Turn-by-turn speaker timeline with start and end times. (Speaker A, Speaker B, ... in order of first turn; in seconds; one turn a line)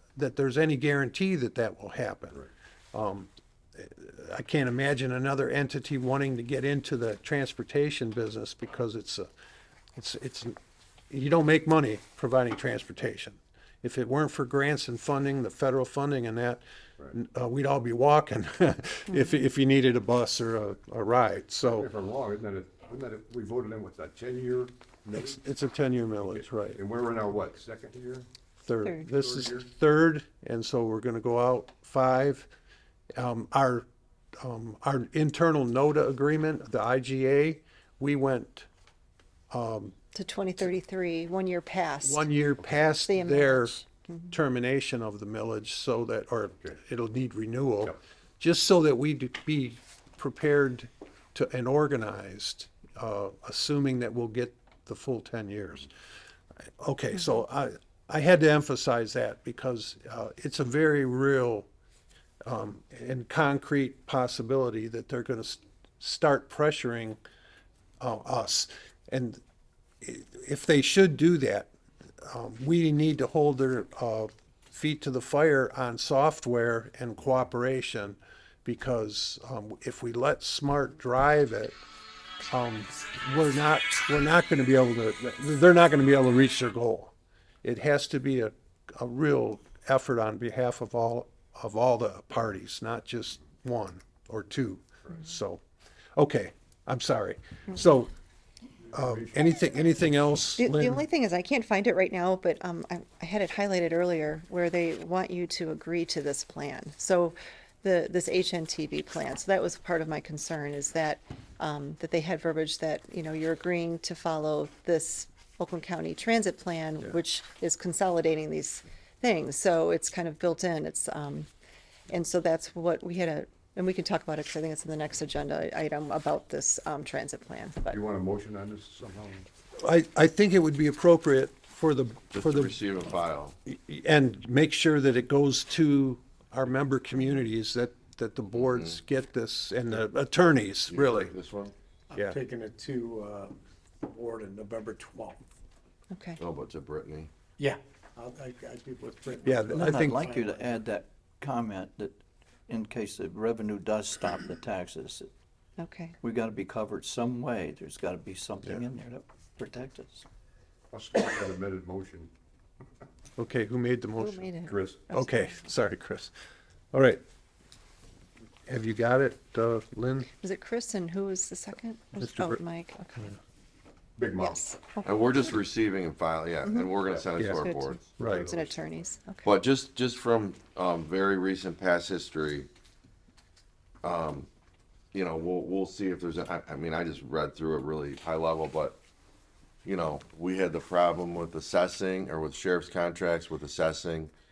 Speaker A: 0.2-9.3
Speaker A: 10.0-10.6
Speaker A: 11.1-21.9
Speaker B: 19.1-19.4
Speaker C: 21.6-25.4
Speaker A: 25.1-26.8
Speaker C: 26.3-28.3
Speaker A: 28.6-32.5
Speaker C: 29.2-29.6
Speaker A: 33.2-33.9
Speaker A: 34.4-38.7
Speaker A: 39.5-39.9
Speaker B: 40.1-42.3
Speaker A: 42.0-43.8
Speaker B: 42.9-44.3
Speaker A: 44.3-55.9
Speaker A: 56.8-61.7
Speaker A: 62.5-67.2
Speaker A: 68.0-69.4
Speaker A: 70.0-71.7
Speaker A: 72.2-81.8
Speaker A: 82.5-95.6
Speaker A: 96.2-98.1
Speaker C: 98.9-99.4
Speaker A: 98.9-101.0
Speaker B: 100.6-121.5
Speaker B: 122.1-128.0
Speaker C: 127.9-129.5
Speaker A: 129.8-132.8
Speaker D: 132.3-133.6
Speaker A: 133.7-141.3
Speaker D: 138.6-138.9
Speaker D: 140.9-141.7
Speaker E: 142.1-145.5
Speaker B: 146.1-146.4
Speaker D: 146.4-147.3
Speaker E: 147.6-150.7
Speaker A: 149.4-150.2
Speaker F: 149.7-155.3
Speaker B: 155.8-156.2
Speaker F: 156.2-160.2
Speaker C: 160.9-162.3
Speaker A: 163.4-164.5
Speaker B: 164.2-165.7
Speaker C: 164.7-165.0
Speaker A: 165.1-166.3
Speaker A: 166.9-167.2
Speaker A: 168.7-170.3
Speaker B: 170.3-173.4
Speaker A: 172.2-172.6
Speaker C: 174.2-174.7
Speaker B: 174.4-175.4
Speaker D: 175.0-178.1
Speaker B: 177.4-179.5
Speaker A: 178.2-178.5
Speaker C: 178.2-178.8
Speaker D: 179.4-182.7
Speaker D: 184.0-184.5
Speaker D: 185.1-189.0
Speaker D: 189.8-194.3